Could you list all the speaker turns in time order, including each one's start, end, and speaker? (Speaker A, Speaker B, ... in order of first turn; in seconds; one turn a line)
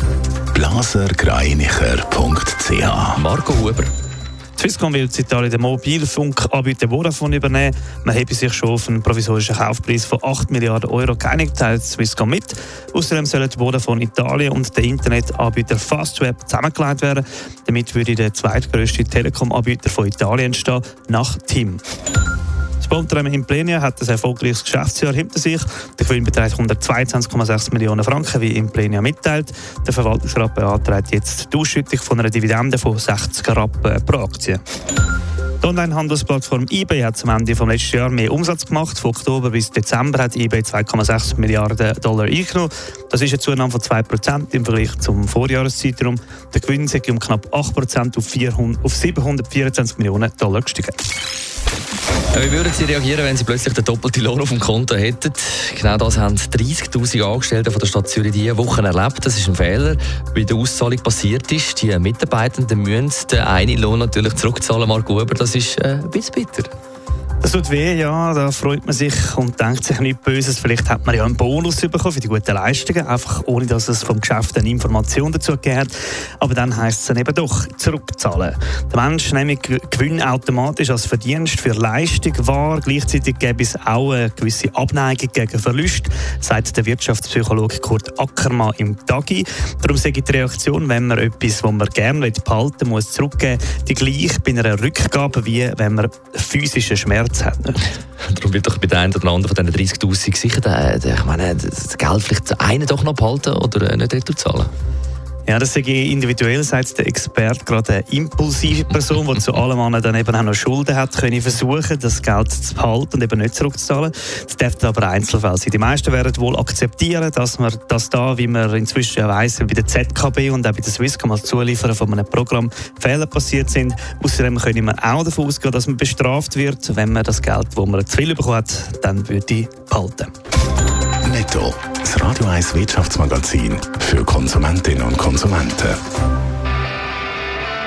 Speaker A: 0.5-3.2
Speaker B: 3.1-3.9
Speaker C: 4.6-21.8
Speaker C: 22.8-34.6
Speaker C: 35.6-51.0
Speaker B: 52.3-66.7
Speaker C: 67.4-97.8
Speaker B: 98.3-104.7
Speaker C: 105.5-130.3
Speaker A: 131.2-136.0